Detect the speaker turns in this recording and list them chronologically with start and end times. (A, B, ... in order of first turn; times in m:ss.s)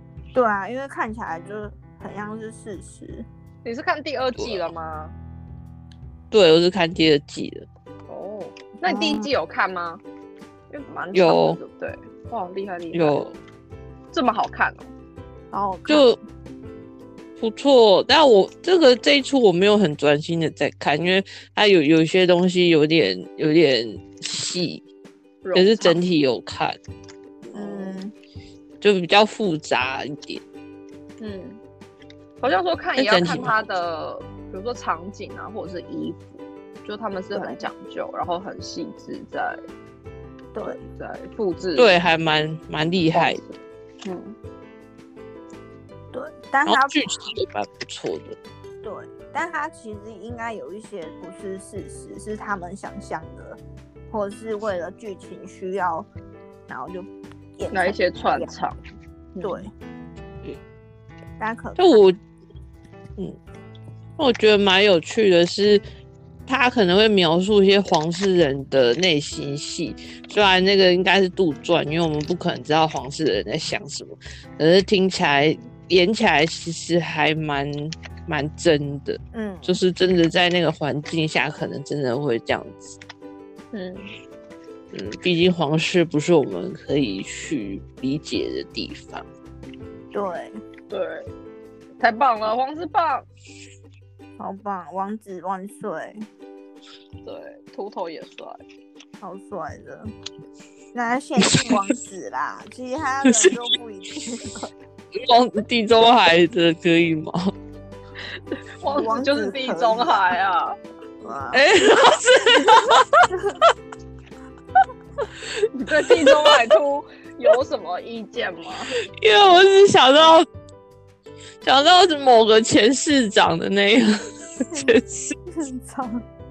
0:00.3-0:03.3 A
0:03.6-0:05.2 B
0:06.3-0:07.7 C
0:08.1-0:10.0 B
0:08.9-0:09.3 A
0:10.7-0:13.2 B
0:11.1-0:11.6 C
0:12.9-0:13.4 C
0:14.1-0:14.9 B
0:15.5-0:16.1 A
0:15.9-0:16.2 C
0:17.4-0:24.8 C
0:25.4-0:26.0 B
0:25.6-0:26.8 C
0:27.5-0:28.0 B
0:27.5-0:28.1 A
0:28.8-0:30.4 C
0:31.2-0:31.6 B
0:32.4-0:39.6 B
0:33.0-0:33.6 C
0:37.3-0:37.6 A
0:40.5-0:40.8 A
0:40.6-0:42.0 B
0:41.8-0:43.4 C
0:43.1-0:44.4 B
0:46.1-0:47.2 A
0:46.7-0:48.4 C
0:48.8-0:53.6 A
0:54.1-0:56.1 A
0:56.7-0:58.5 A
0:57.7-0:58.8 B
0:59.4-0:59.7 B
0:59.4-0:59.7 A
1:01.4-1:02.0 A
1:01.8-1:02.2 C
1:04.2-1:05.8 C
1:06.5-1:23.0 C
1:19.3-1:19.8 A
1:23.7-1:24.1 B
1:24.9-1:29.3 C
1:30.1-1:30.6 A
1:30.9-1:31.3 B
1:32.0-1:33.2 B
1:34.4-1:36.3 A
1:37.2-1:38.6 B
1:39.2-1:40.1 A
1:40.9-1:44.7 A
1:41.4-1:41.8 C
1:43.2-1:43.6 C
1:45.2-1:47.5 C
1:48.5-1:50.8 B
1:48.9-1:50.2 A
1:51.2-1:51.6 A
1:51.5-1:53.3 C
1:53.3-1:53.6 A
1:55.7-1:59.0 B
1:56.1-1:56.5 C
1:59.2-2:00.5 C
2:01.6-2:05.4 C
2:04.7-2:05.0 A
2:05.5-2:06.2 A